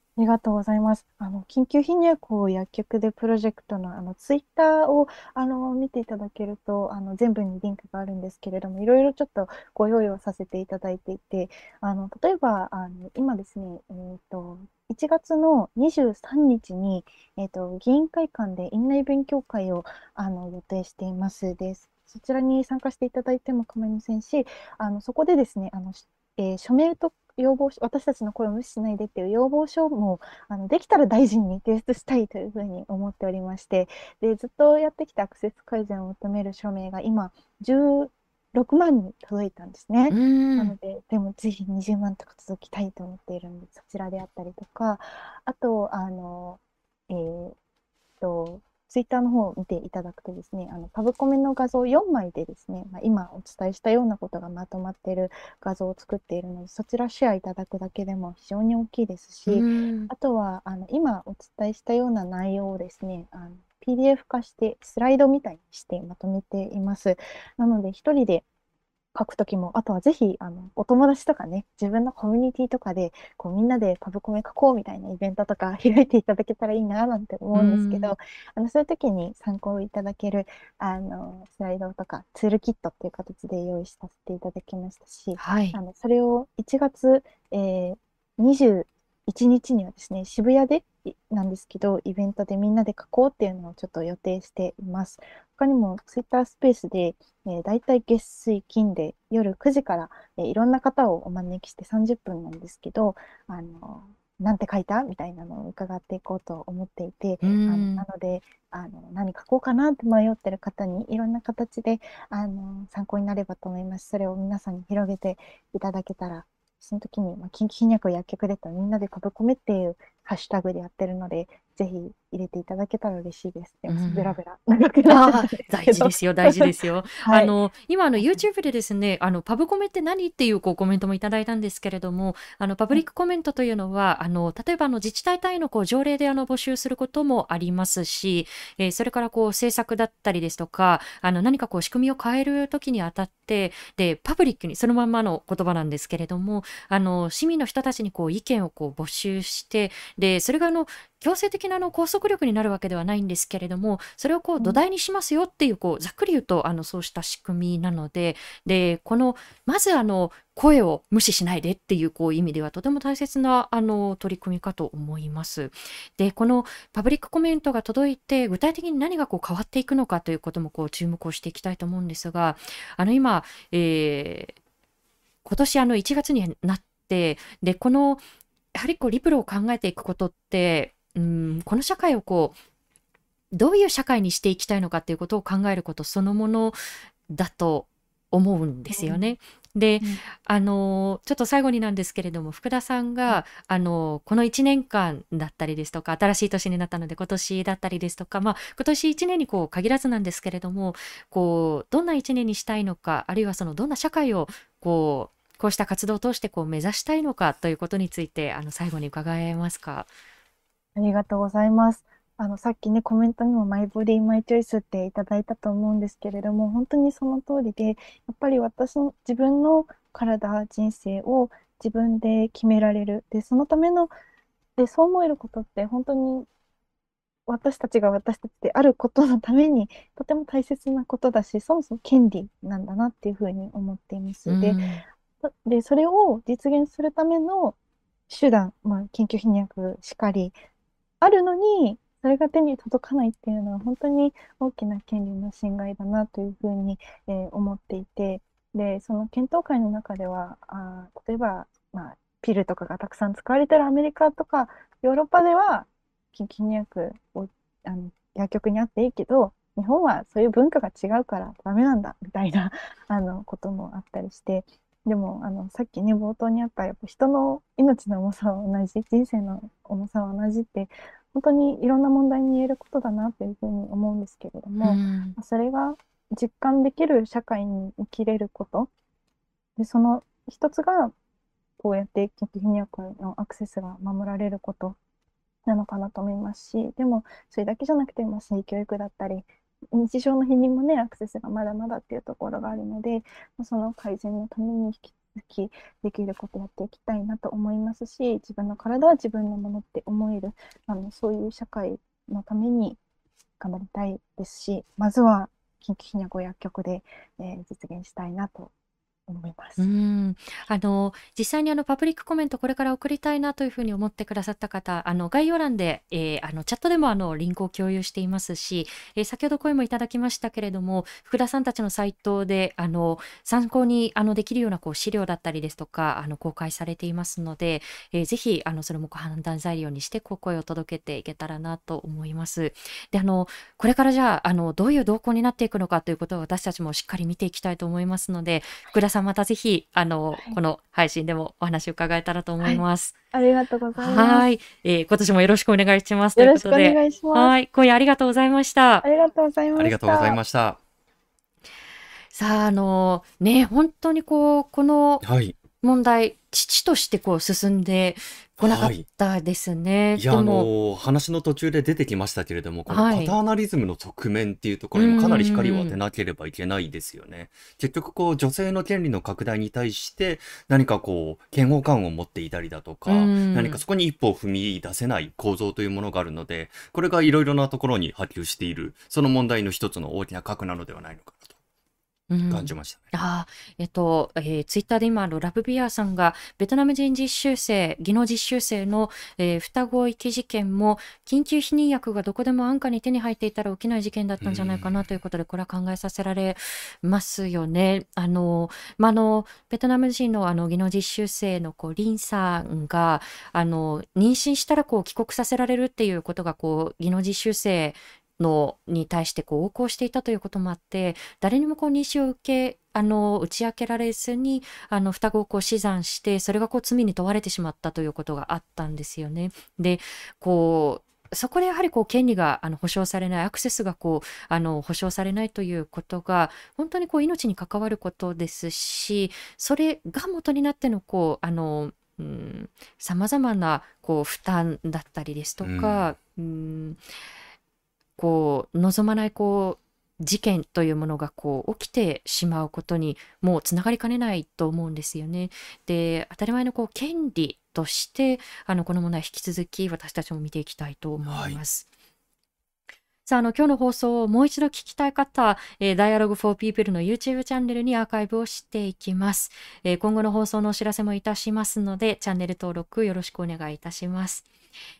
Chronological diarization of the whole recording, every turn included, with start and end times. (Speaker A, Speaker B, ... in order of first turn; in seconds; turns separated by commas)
Speaker A: 0.1-47.6, Speaker B: 40.1-40.7, Speaker A: 48.2-68.4, Speaker B: 59.5-60.1, Speaker A: 69.1-127.5, Speaker B: 77.5-78.1, Speaker B: 85.4-85.8, Speaker B: 107.4-108.0, Speaker B: 123.9-124.4, Speaker B: 125.0-174.6, Speaker A: 128.2-128.4, Speaker B: 175.4-178.2, Speaker B: 178.7-182.6, Speaker B: 183.5-210.1, Speaker A: 188.9-189.3, Speaker A: 210.9-224.1, Speaker A: 224.8-226.5, Speaker A: 227.5-234.8, Speaker B: 234.5-235.0, Speaker A: 235.4-237.8, Speaker A: 238.3-240.5, Speaker A: 241.2-278.9, Speaker B: 274.8-275.4, Speaker A: 279.8-281.1, Speaker A: 281.8-285.0, Speaker A: 285.6-303.0, Speaker A: 303.6-308.7, Speaker A: 309.3-309.9, Speaker B: 309.8-343.1, Speaker A: 342.6-344.5, Speaker B: 343.9-349.1, Speaker A: 346.4-347.5, Speaker A: 349.0-350.4, Speaker C: 349.7-350.8, Speaker B: 352.3-355.2, Speaker C: 355.2-355.6, Speaker B: 355.8-360.7, Speaker C: 358.6-359.0, Speaker C: 360.2-381.5, Speaker B: 362.9-363.4, Speaker B: 364.9-366.0, Speaker B: 373.1-373.8, Speaker B: 382.3-437.0, Speaker C: 382.5-383.1, Speaker C: 394.4-395.1, Speaker C: 435.6-436.1, Speaker B: 438.2-451.9, Speaker C: 451.2-451.6, Speaker B: 453.2-464.5